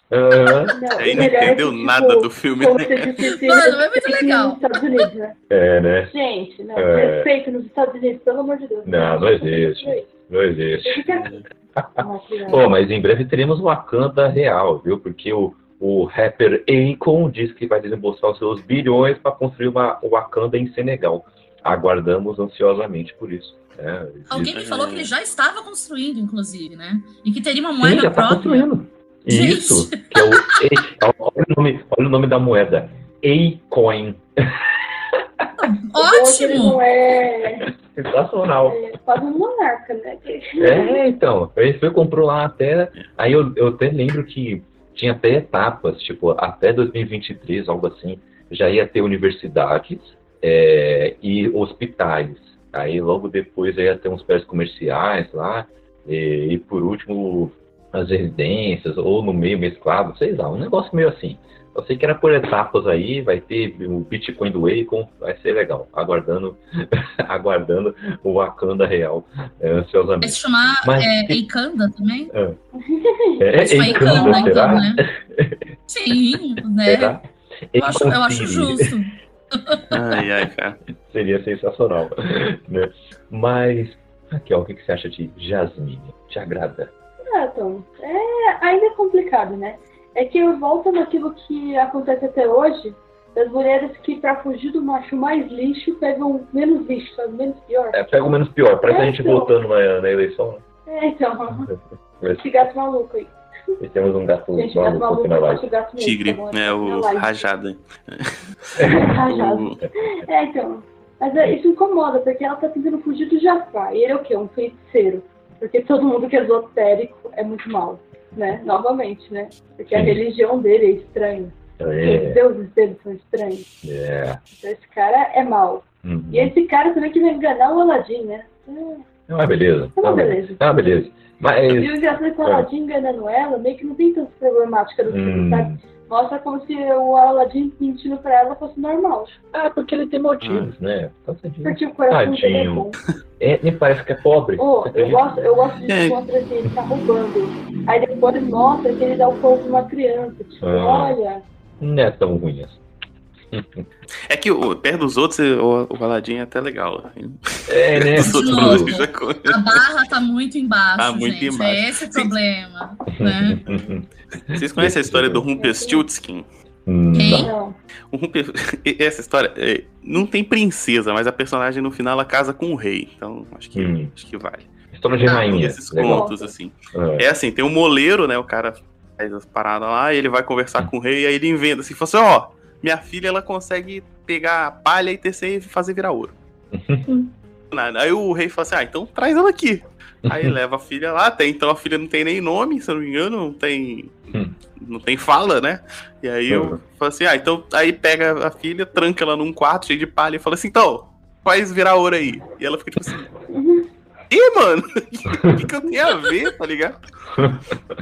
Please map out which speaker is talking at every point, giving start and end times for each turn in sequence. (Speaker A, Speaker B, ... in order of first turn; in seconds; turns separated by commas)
Speaker A: 0.1-1.3, Speaker B: 0.7-5.3, Speaker C: 1.0-3.1, Speaker D: 3.2-4.8, Speaker A: 5.5-6.1, Speaker B: 6.1-10.1, Speaker A: 6.8-7.3, Speaker A: 8.8-24.6, Speaker B: 10.8-11.4, Speaker C: 11.1-11.4, Speaker B: 12.0-12.7, Speaker D: 24.3-28.7, Speaker C: 24.5-25.1, Speaker A: 27.8-35.5, Speaker D: 29.3-30.6, Speaker D: 35.6-36.8, Speaker B: 36.0-37.7, Speaker A: 37.7-38.8, Speaker B: 38.6-41.0, Speaker A: 40.6-71.4, Speaker D: 70.2-72.3, Speaker B: 72.7-74.9, Speaker A: 73.4-75.7, Speaker D: 73.6-75.0, Speaker D: 75.9-77.2, Speaker A: 76.8-78.9, Speaker D: 77.8-80.0, Speaker C: 79.9-80.8, Speaker A: 81.1-86.9, Speaker B: 87.3-98.0, Speaker A: 97.9-100.6, Speaker B: 98.9-99.6, Speaker B: 100.9-101.7, Speaker A: 102.2-102.5, Speaker B: 102.4-103.3, Speaker A: 103.8-105.7, Speaker B: 104.5-107.4, Speaker C: 106.0-109.8, Speaker A: 108.8-109.1, Speaker B: 108.8-123.7, Speaker A: 119.9-120.2, Speaker A: 121.8-122.4, Speaker A: 123.8-124.4, Speaker B: 124.5-129.1, Speaker A: 126.0-126.5, Speaker A: 129.3-132.7, Speaker B: 130.0-131.0, Speaker B: 131.7-139.3, Speaker A: 135.1-135.8, Speaker A: 139.5-145.2, Speaker C: 140.4-140.7, Speaker B: 141.6-143.0, Speaker B: 144.6-151.4, Speaker C: 145.9-146.2, Speaker A: 150.6-151.2, Speaker A: 151.8-152.8, Speaker A: 153.5-153.8, Speaker C: 154.3-159.8, Speaker A: 157.7-158.9, Speaker D: 158.2-163.6, Speaker C: 161.0-162.3, Speaker A: 163.1-165.4, Speaker C: 163.6-166.4, Speaker B: 165.6-166.1, Speaker A: 166.8-167.5, Speaker D: 167.1-167.5, Speaker B: 167.4-167.8, Speaker C: 168.1-174.7, Speaker A: 173.7-174.1, Speaker A: 174.9-176.3, Speaker C: 175.2-186.3, Speaker B: 176.1-176.5, Speaker A: 176.9-177.3, Speaker A: 186.7-187.3, Speaker C: 187.7-194.1, Speaker A: 190.3-190.5, Speaker C: 194.8-203.2, Speaker A: 196.5-196.8, Speaker B: 203.5-203.9, Speaker C: 204.3-207.0, Speaker A: 207.3-207.7